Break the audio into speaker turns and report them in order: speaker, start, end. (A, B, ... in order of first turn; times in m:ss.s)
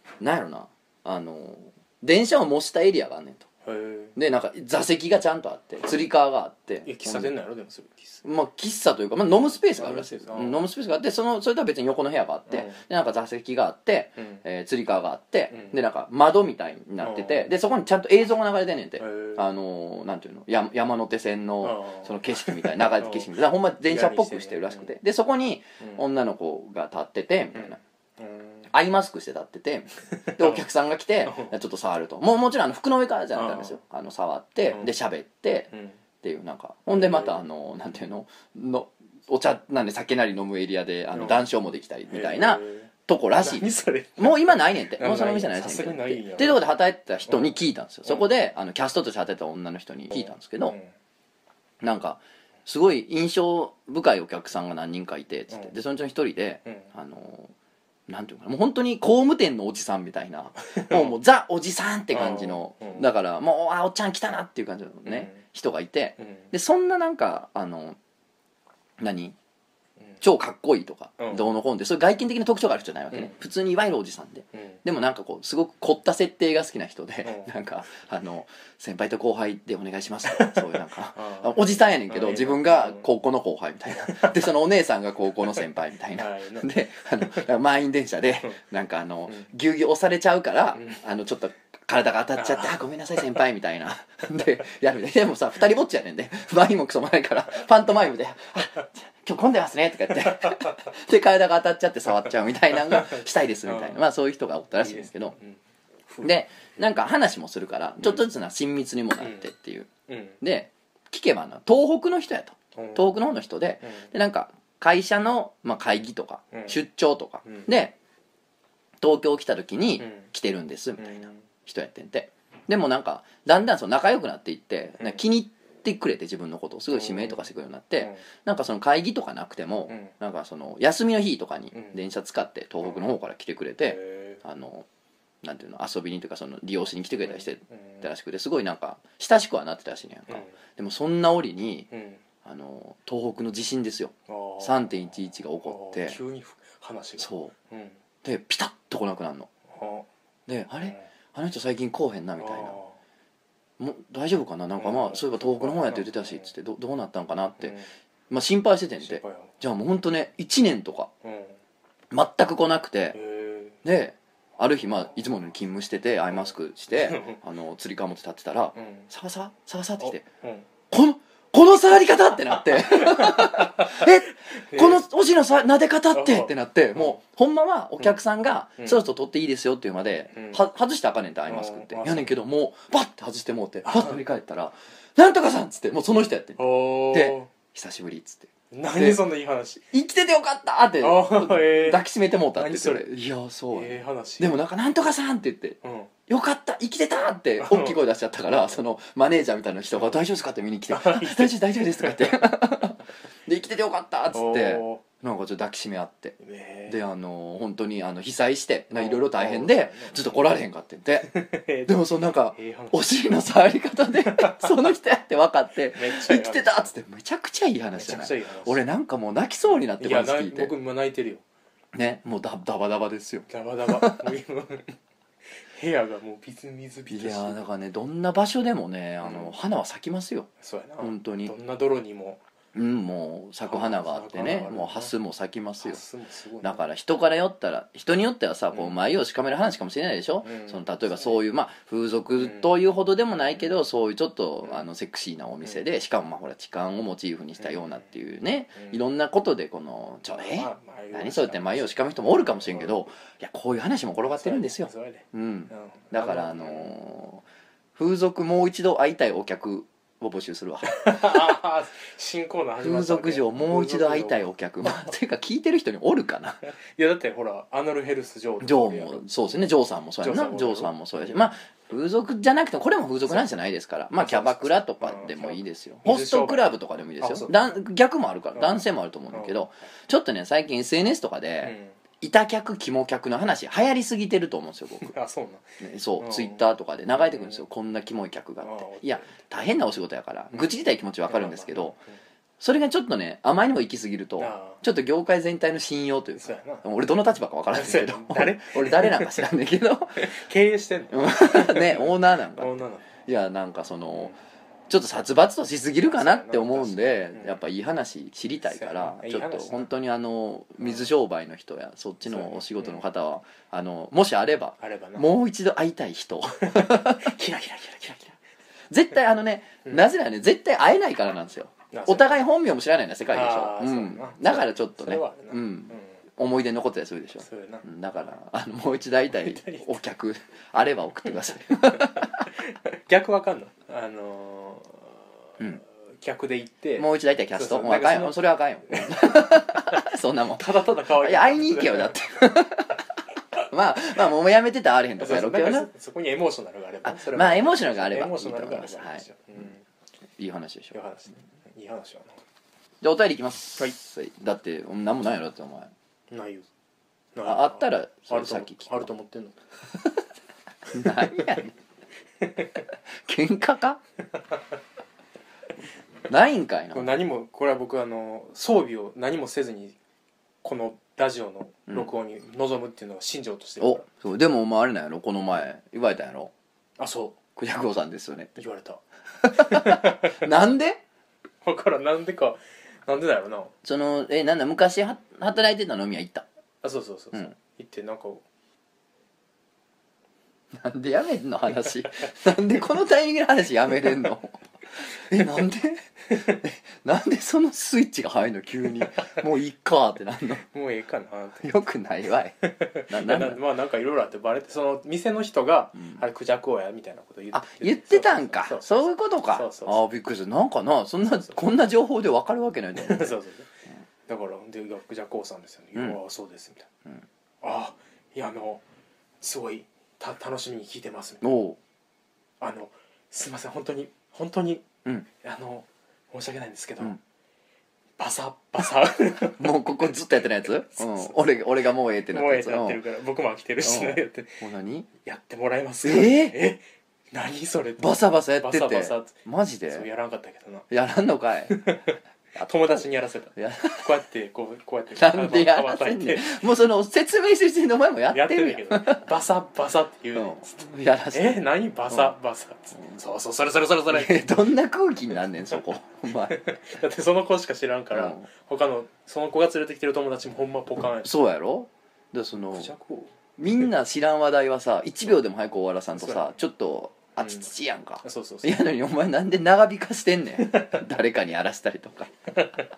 0:00.2-0:03.5 A
0:03.6-0:04.1 B
0:04.2-0:07.3 A
0:06.8-0:08.2 B
0:08.2-0:27.8 A
0:09.8-0:10.7 B
0:12.5-0:12.8 B
0:17.0-0:17.5 B
0:19.0-0:19.5 B
0:21.6-0:23.3 B
0:23.8-0:24.9 B
0:27.5-0:28.7 B
0:28.7-0:50.8 A
0:30.3-0:30.6 B
0:31.2-0:31.5 B
0:33.3-0:33.8 B
0:35.7-0:36.0 B
0:36.9-0:37.4 B
0:41.1-0:41.4 B
0:42.1-0:46.6 B
0:47.3-0:48.3 B
0:50.1-0:50.9 B
0:51.8-0:57.5 A
0:58.1-1:08.0 A
1:00.8-1:01.2 B
1:02.1-1:03.1 B
1:05.0-1:05.4 B
1:06.2-1:06.5 B
1:09.0-1:09.4 A
1:10.2-1:45.4 A
1:11.2-1:11.5 B
1:14.5-1:14.8 B
1:17.2-1:17.5 B
1:20.2-1:23.1 B
1:24.0-1:24.4 B
1:26.2-1:26.7 B
1:32.4-1:32.8 B
1:40.4-1:40.8 B
1:42.7-1:44.0 B
1:44.8-1:46.3 B
1:46.2-1:58.0 A
1:50.1-1:50.4 B
1:52.8-1:53.1 B
1:56.5-1:56.8 B
1:59.0-2:14.9 A
2:00.0-2:00.3 B
2:01.0-2:01.4 B
2:06.9-2:07.5 B
2:13.8-2:14.4 B
2:15.4-2:21.9 A
2:17.2-2:18.0 B
2:20.3-2:20.5 B
2:21.9-2:22.2 B
2:22.4-2:26.2 A
2:24.3-2:24.9 B
2:25.6-2:28.0 B
2:27.2-2:27.5 A
2:28.2-2:29.5 A
2:29.7-2:30.1 B
2:30.5-2:32.8 A
2:32.4-2:33.0 B
2:33.8-2:37.8 A
2:34.8-2:36.5 B
2:37.6-2:37.9 B
2:38.3-2:41.1 A
2:39.0-2:39.5 B
2:41.2-2:41.6 B
2:42.1-2:43.2 A
2:43.1-2:43.8 B
2:43.8-2:50.3 A
2:46.3-2:47.4 B
2:48.8-2:49.1 B
2:50.0-2:50.7 B
2:50.9-3:09.2 A
2:52.7-2:55.0 B
2:56.1-2:57.2 B
3:00.3-3:00.6 B
3:01.5-3:02.4 B
3:03.8-3:04.2 B
3:06.6-3:07.5 B
3:08.7-3:09.8 B
3:09.9-3:31.3 A
3:11.0-3:13.1 B
3:13.7-3:14.5 B
3:15.8-3:16.1 B
3:17.6-3:18.8 B
3:20.9-3:22.4 B
3:24.3-3:25.0 B
3:26.4-3:27.0 B
3:28.9-3:30.5 B
3:31.2-3:33.0 B
3:31.8-3:40.7 A
3:34.3-3:34.9 B
3:36.0-3:36.9 B
3:38.0-3:38.8 B
3:39.9-3:41.4 B
3:41.9-3:44.3 A
3:43.5-3:45.0 B
3:45.6-3:47.6 B
3:47.1-3:51.5 A
3:49.2-3:49.6 B
3:50.6-3:52.4 B
3:52.7-3:56.0 A
3:53.6-3:55.1 B
3:55.8-3:56.8 B
3:56.6-4:17.4 A
4:00.4-4:01.4 B
4:02.4-4:02.7 B
4:07.6-4:08.0 B
4:10.3-4:13.0 B
4:14.3-4:16.9 B
4:18.0-4:21.6 A
4:20.9-4:25.1 B
4:22.8-4:26.7 A
4:26.9-4:29.6 B
4:28.6-4:45.1 A
4:30.2-4:31.4 B
4:33.3-4:33.5 B
4:34.2-4:37.6 B
4:38.6-4:39.6 B
4:41.6-4:42.0 B
4:45.0-4:45.6 B
4:45.8-4:52.0 A
4:46.2-4:46.6 B
4:47.2-4:47.6 B
4:48.6-4:49.4 B
4:51.3-4:52.1 B
4:52.6-5:00.3 A
4:54.4-4:54.8 B
4:56.4-4:56.8 B
4:57.7-4:59.5 B
5:00.2-5:03.1 B
5:01.1-5:04.4 A
5:04.9-5:17.3 A
5:06.0-5:07.6 B
5:08.7-5:09.9 B
5:10.8-5:11.1 B
5:12.2-5:13.0 B
5:14.8-5:15.3 B
5:16.6-5:18.4 B
5:18.9-5:32.5 A
5:21.9-5:22.4 B
5:23.3-5:26.1 B
5:27.4-5:27.9 B
5:29.3-5:29.9 B
5:31.9-5:42.3 B
5:37.0-5:45.9 A
5:45.2-5:49.8 B
5:47.0-5:49.2 A
5:50.4-5:51.0 A
5:50.9-5:52.4 B
5:53.0-5:55.9 A
5:56.3-5:56.7 B
5:57.3-5:59.6 B
5:57.4-5:59.1 A
6:00.9-6:01.7 A
6:03.2-6:04.0 A
6:06.3-6:07.1 A
6:06.9-6:10.0 B
6:10.6-6:14.1 B
6:13.8-6:16.5 A
6:17.0-6:17.4 B
6:17.6-6:18.6 A
6:18.6-6:19.0 B
6:19.4-6:21.0 A
6:19.5-6:20.4 B
6:21.6-6:23.7 B
6:23.8-6:26.5 A
6:26.8-6:28.4 B
6:30.7-6:40.7 A
6:40.7-6:41.7 B
6:41.6-6:43.6 A
6:42.7-6:50.0 B
6:46.0-6:46.2 A
6:47.5-6:53.4 A
6:53.0-6:53.7 B
6:54.3-6:56.9 B
6:57.6-6:58.8 B
6:59.4-7:01.4 B
7:01.4-7:01.8 A
7:02.6-7:07.2 B
7:08.2-7:10.2 B
7:09.6-7:13.0 A
7:11.0-7:11.4 B
7:12.3-7:14.6 B
7:13.8-7:15.1 A
7:15.2-7:19.4 B
7:16.0-7:16.6 A
7:18.0-7:20.1 A
7:19.9-7:20.9 B
7:20.9-7:21.8 A
7:21.7-7:26.6 B
7:22.6-7:24.1 A
7:25.2-7:29.2 A
7:28.3-7:34.6 B
7:30.4-7:32.4 A
7:34.1-7:36.6 A
7:36.5-7:41.3 B
7:38.1-7:38.5 A
7:41.2-7:42.9 A
7:42.7-7:43.3 B
7:43.6-7:52.3 A
7:46.2-7:46.5 B
7:47.4-7:47.7 B
7:48.2-7:48.8 B
7:50.6-7:51.0 B